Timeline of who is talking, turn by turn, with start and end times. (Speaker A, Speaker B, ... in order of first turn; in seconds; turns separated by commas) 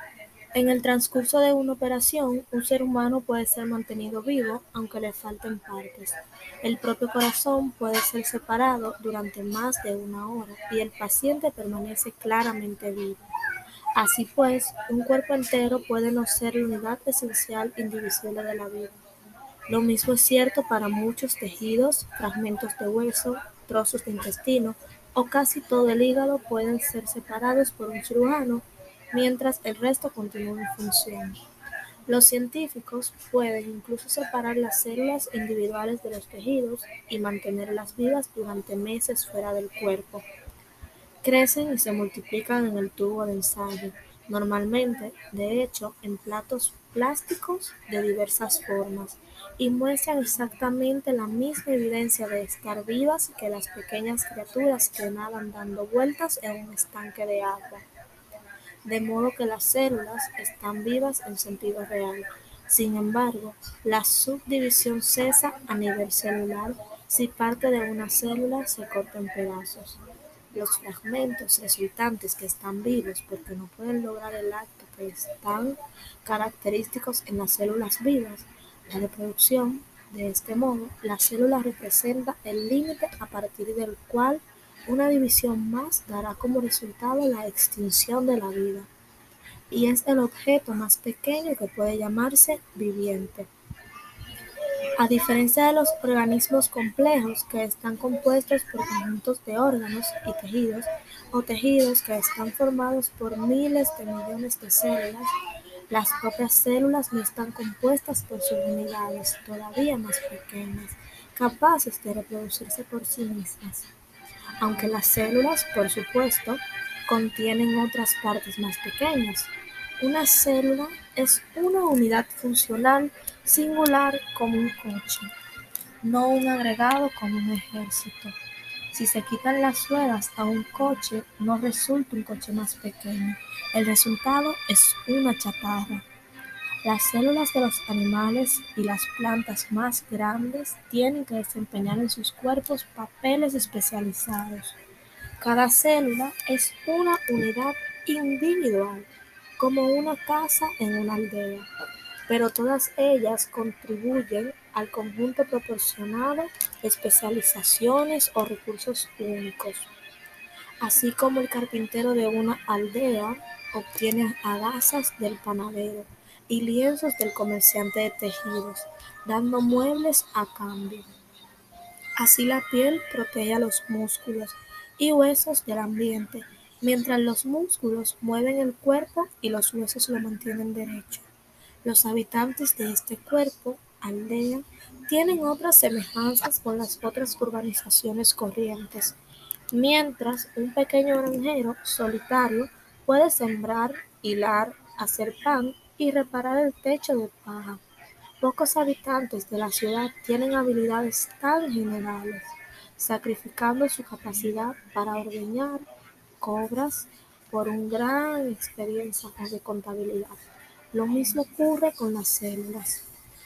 Speaker A: 0.5-13.3, Speaker A: 13.9-19.0, Speaker A: 19.7-31.4, Speaker A: 32.1-40.2, Speaker A: 41.2-57.9, Speaker A: 58.9-70.0, Speaker A: 70.5-88.9, Speaker A: 89.7-93.5, Speaker A: 95.0-105.3, Speaker A: 105.9-113.9, Speaker A: 114.6-125.3, Speaker A: 126.0-128.4, Speaker A: 128.9-136.1, Speaker A: 136.8-144.8, Speaker A: 145.4-149.1, Speaker A: 149.6-151.7, Speaker A: 152.3-159.9, Speaker A: 160.8-171.1, Speaker A: 172.2-181.3, Speaker A: 181.8-189.2, Speaker A: 189.7-197.8, Speaker A: 198.4-205.8, Speaker A: 206.4-210.4, Speaker A: 210.9-213.1